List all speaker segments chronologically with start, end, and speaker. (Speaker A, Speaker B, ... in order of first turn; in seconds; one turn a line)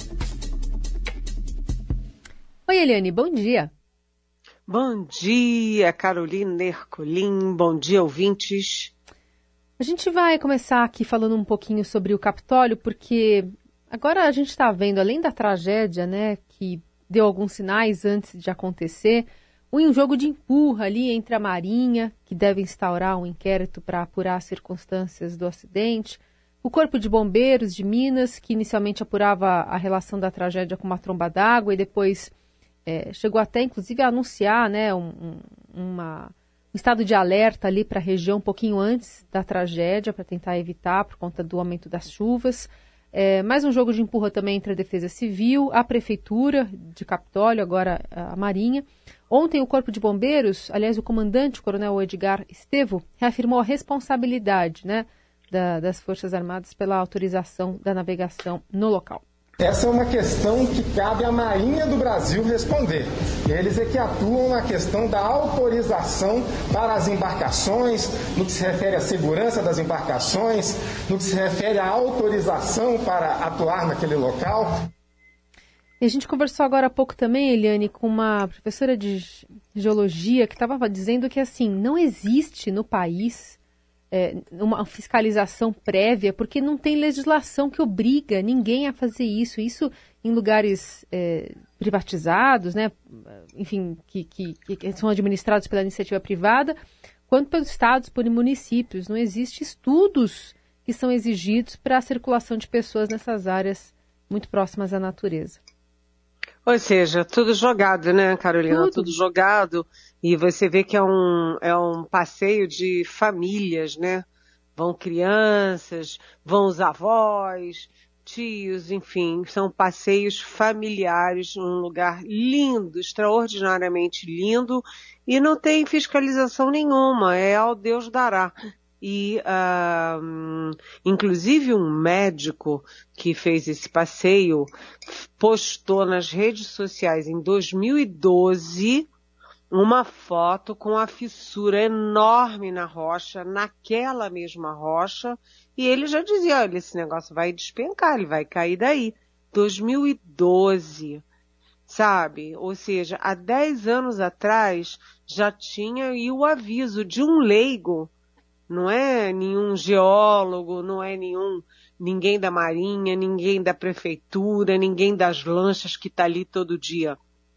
Speaker A: 2.7-3.7
Speaker B: 4.7-8.9
Speaker A: 9.8-32.3
Speaker A: 32.9-59.2
Speaker C: 59.6-74.9
Speaker A: 76.0-83.6
Speaker A: 84.1-96.8
Speaker A: 97.3-105.6
Speaker B: 106.7-114.2
Speaker A: 108.7-109.1
Speaker B: 114.8-139.1
Speaker B: 139.7-151.2
Speaker B: 151.9-158.1
Speaker B: 158.7-167.2